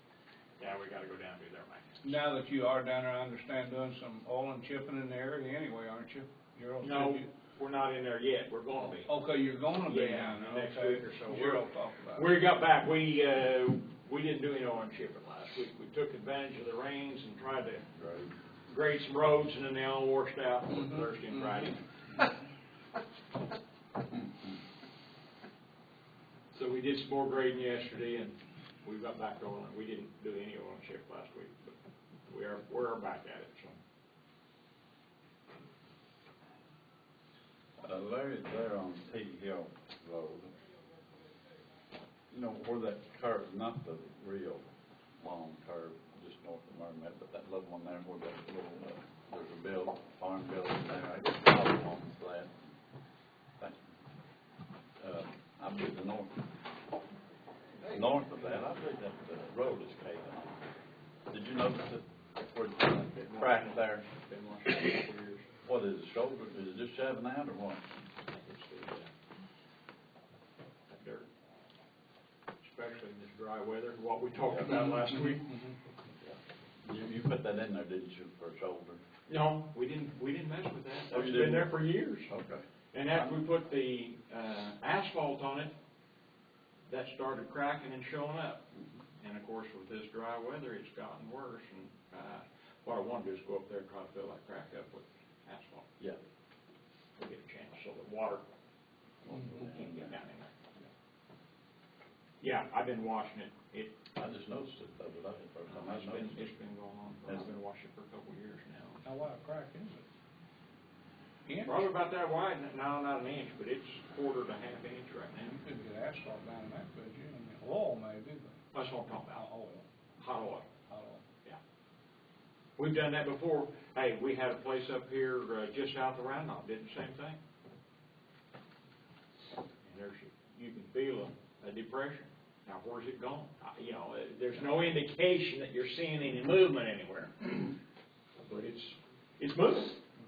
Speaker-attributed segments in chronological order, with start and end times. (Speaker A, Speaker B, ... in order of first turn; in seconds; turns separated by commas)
Speaker A: 0.6-2.2, Speaker B: 2.0-7.3, Speaker A: 6.8-9.1, Speaker B: 8.7-12.3, Speaker A: 9.8-17.9, Speaker C: 17.9-18.3, Speaker A: 18.6-21.8, Speaker B: 20.7-21.7, Speaker A: 26.5-31.7, Speaker A: 32.3-33.8, Speaker C: 37.8-40.5, Speaker C: 42.3-44.6, Speaker C: 45.2-52.7, Speaker C: 53.6-53.9, Speaker C: 55.0-56.3, Speaker C: 57.9-60.6, Speaker C: 61.3-64.0, Speaker A: 63.2-65.5, Speaker C: 65.6-67.8, Speaker A: 68.3-69.1, Speaker A: 70.9-71.3, Speaker A: 72.6-75.6, Speaker C: 74.4-74.7, Speaker C: 76.2-79.0, Speaker A: 79.3-82.3, Speaker C: 81.1-81.7, Speaker C: 82.3-83.4, Speaker A: 82.9-85.7, Speaker A: 86.9-88.6, Speaker A: 89.2-95.9, Speaker A: 97.2-98.4, Speaker C: 99.2-100.2, Speaker B: 99.3-99.7, Speaker A: 99.5-100.5, Speaker A: 102.4-104.0, Speaker C: 104.1-106.5, Speaker A: 105.7-109.0, Speaker C: 107.2-107.5, Speaker B: 109.0-110.0, Speaker B: 111.5-111.8, Speaker A: 111.6-115.6, Speaker B: 115.4-118.6, Speaker A: 118.7-119.4, Speaker B: 119.3-119.8, Speaker A: 120.2-120.7, Speaker B: 120.9-121.2, Speaker A: 122.8-127.4, Speaker A: 129.8-137.8, Speaker A: 138.4-140.0